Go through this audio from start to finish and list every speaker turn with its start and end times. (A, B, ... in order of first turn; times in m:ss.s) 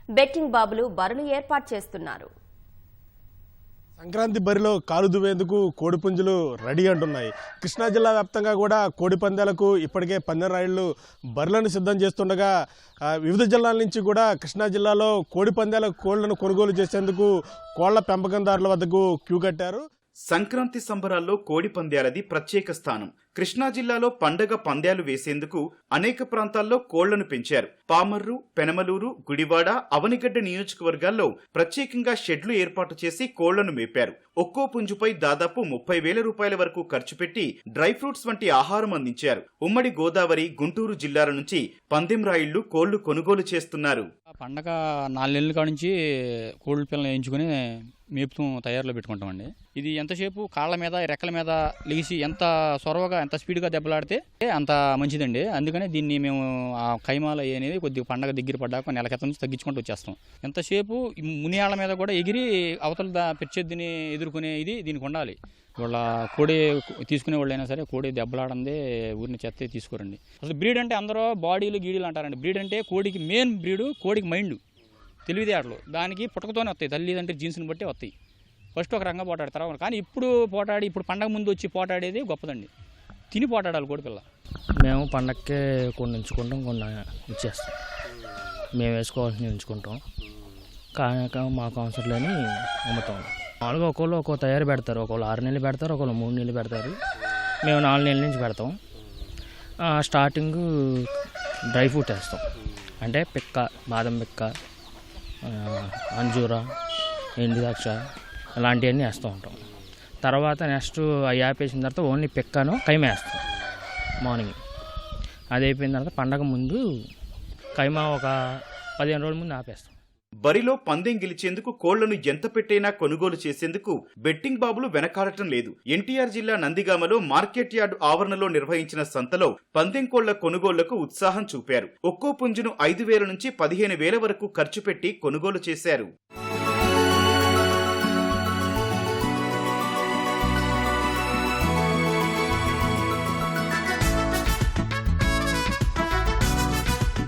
0:00.2-0:02.3 A
0:04.0-0:12.5 B
0:13.2-0:19.8 B
0:20.3-0:44.1 C
0:44.4-0:45.9 D
0:46.6-0:47.5 D
0:48.2-1:14.6 D
1:15.3-1:18.1 D
1:18.8-1:22.7 D
1:23.3-1:24.2 D
1:24.8-1:27.7 E
1:28.8-1:30.0 E
1:31.0-1:37.0 E
1:37.6-1:38.8 E
1:39.8-1:41.1 E
1:41.7-1:42.4 E
1:43.0-1:44.5 E
1:45.4-1:46.7 E
1:47.4-1:48.0 E
1:48.6-1:49.6 E
1:50.2-1:53.4 E
1:54.2-1:54.6 E
1:55.5-1:56.8 E
1:57.8-1:58.4 E
1:59.0-2:00.0 E
2:00.4-2:16.1 C